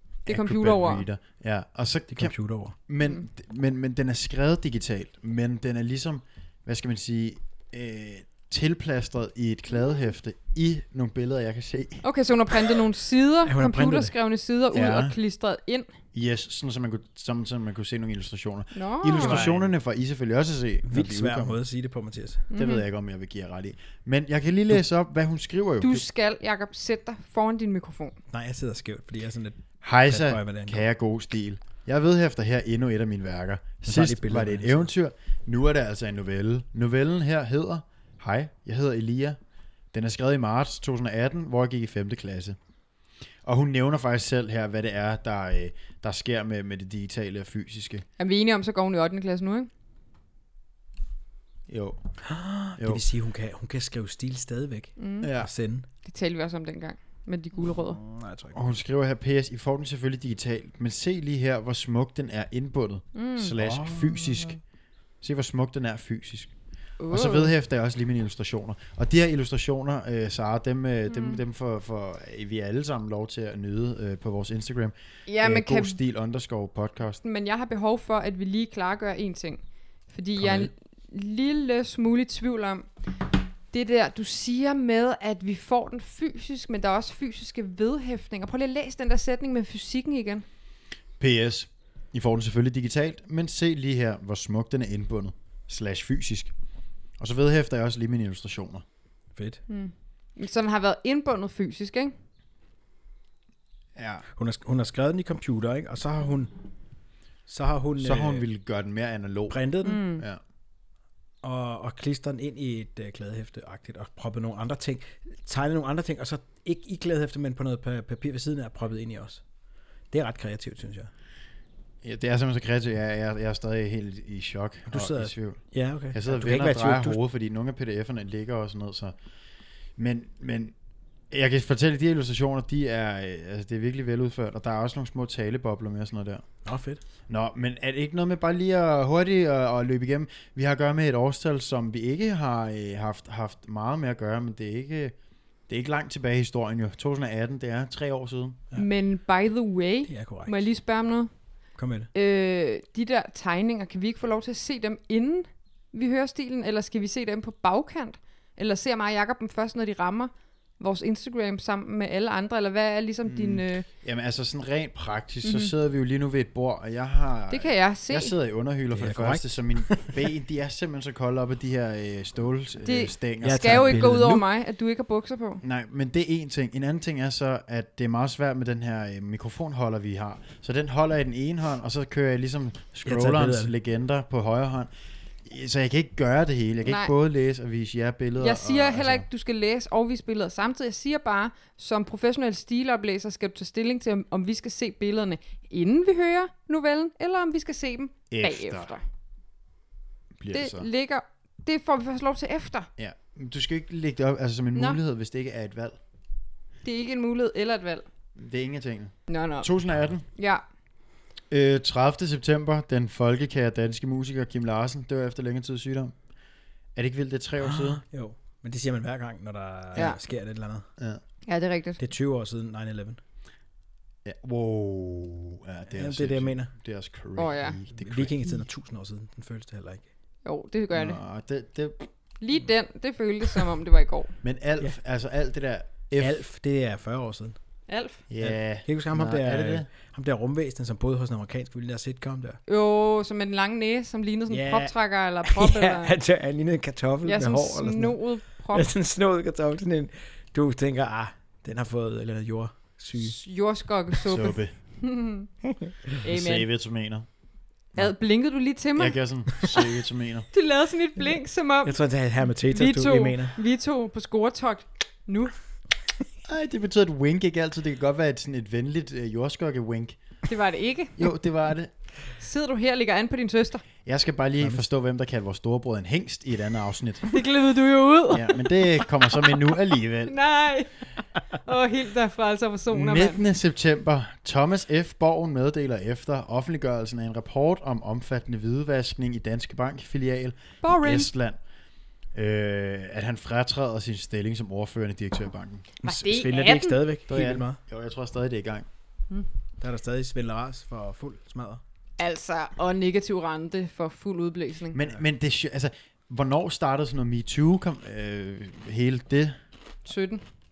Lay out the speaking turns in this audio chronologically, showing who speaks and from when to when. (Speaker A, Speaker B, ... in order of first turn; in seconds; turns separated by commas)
Speaker A: 0.2-1.1, Speaker B: 0.2-12.0, Speaker C: 2.1-2.8, Speaker A: 12.0-15.9, Speaker C: 13.4-14.1, Speaker B: 14.7-15.2, Speaker B: 16.1-21.6, Speaker A: 18.7-19.4, Speaker C: 19.1-19.7, Speaker C: 20.9-22.5, Speaker A: 22.5-22.8, Speaker B: 22.5-26.0, Speaker A: 25.8-28.1, Speaker C: 28.3-30.8, Speaker B: 29.8-39.4, Speaker C: 33.9-34.9, Speaker B: 39.9-42.6, Speaker B: 43.4-48.0, Speaker A: 48.2-49.7, Speaker B: 51.7-52.1, Speaker C: 52.2-55.9, Speaker B: 52.8-53.0, Speaker A: 55.0-55.3, Speaker B: 55.2-55.5, Speaker A: 56.0-58.0, Speaker C: 57.7-58.6, Speaker B: 58.5-64.6, Speaker A: 63.1-63.5, Speaker C: 63.5-64.6, Speaker B: 65.2-66.5, Speaker A: 67.0-67.5, Speaker B: 67.1-77.2, Speaker A: 71.1-71.4, Speaker A: 75.3-76.0, Speaker A: 77.2-82.9, Speaker C: 80.4-80.7, Speaker A: 83.7-90.4, Speaker B: 91.2-96.5, Speaker B: 97.2-98.8, Speaker C: 99.3-99.6, Speaker A: 99.7-102.1, Speaker B: 104.0-104.2, Speaker C: 104.3-106.5, Speaker C: 107.5-108.5, Speaker B: 108.0-109.6, Speaker C: 109.5-110.0, Speaker A: 109.8-110.2, Speaker C: 111.4-119.4, Speaker C: 120.1-121.1, Speaker B: 122.0-129.2, Speaker C: 124.9-127.2, Speaker B: 130.0-130.7, Speaker B: 131.3-136.5, Speaker C: 136.6-137.0, Speaker B: 137.3-145.1, Speaker B: 145.7-148.6, Speaker A: 148.7-151.3, Speaker C: 150.1-150.7, Speaker C: 151.8-152.1, Speaker A: 152.1-163.8, Speaker B: 163.2-174.4, Speaker A: 165.4-165.7, Speaker A: 167.5-168.3, Speaker C: 168.9-170.2, Speaker A: 172.8-175.6, Speaker C: 173.4-174.4, Speaker B: 175.6-184.9, Speaker C: 183.1-183.7, Speaker B: 185.4-189.2, Speaker A: 186.8-187.1, Speaker A: 188.4-199.0, Speaker B: 198.3-198.9, Speaker B: 200.3-200.9, Speaker A: 200.5-202.9, Speaker B: 203.0-206.0, Speaker A: 206.8-208.1, Speaker B: 208.3-210.2, Speaker A: 209.3-209.7, Speaker A: 210.3-210.6, Speaker B: 211.5-216.1, Speaker B: 216.9-218.0, Speaker C: 217.6-220.8, Speaker A: 219.9-220.2, Speaker A: 221.5-222.0, Speaker C: 222.0-223.2, Speaker B: 224.2-228.4, Speaker C: 225.9-226.7, Speaker A: 227.4-227.8, Speaker C: 228.0-230.0, Speaker A: 230.4-231.2, Speaker B: 230.9-232.0, Speaker A: 232.4-234.3, Speaker B: 234.4-236.4, Speaker C: 236.2-237.6, Speaker A: 237.9-238.2, Speaker B: 238.3-239.9, Speaker C: 238.4-242.6, Speaker A: 242.7-246.1, Speaker C: 244.5-253.4, Speaker A: 247.2-248.9, Speaker A: 253.2-255.5, Speaker B: 254.2-254.7, Speaker A: 256.2-256.6, Speaker B: 256.2-257.3, Speaker A: 257.9-259.7, Speaker B: 258.9-260.5, Speaker A: 260.5-262.0, Speaker C: 261.8-263.6, Speaker A: 262.6-265.5, Speaker B: 266.4-270.2, Speaker A: 270.5-271.3, Speaker B: 271.2-271.9, Speaker A: 272.3-273.8, Speaker B: 274.0-277.3, Speaker A: 277.3-279.7, Speaker B: 278.3-280.3, Speaker A: 280.2-283.4, Speaker B: 282.9-291.6, Speaker A: 290.8-291.3, Speaker B: 292.3-295.9, Speaker A: 296.0-297.0, Speaker C: 296.0-297.8, Speaker B: 297.3-298.9, Speaker C: 299.8-301.8, Speaker A: 302.2-305.0, Speaker B: 304.9-309.6, Speaker A: 310.1-310.4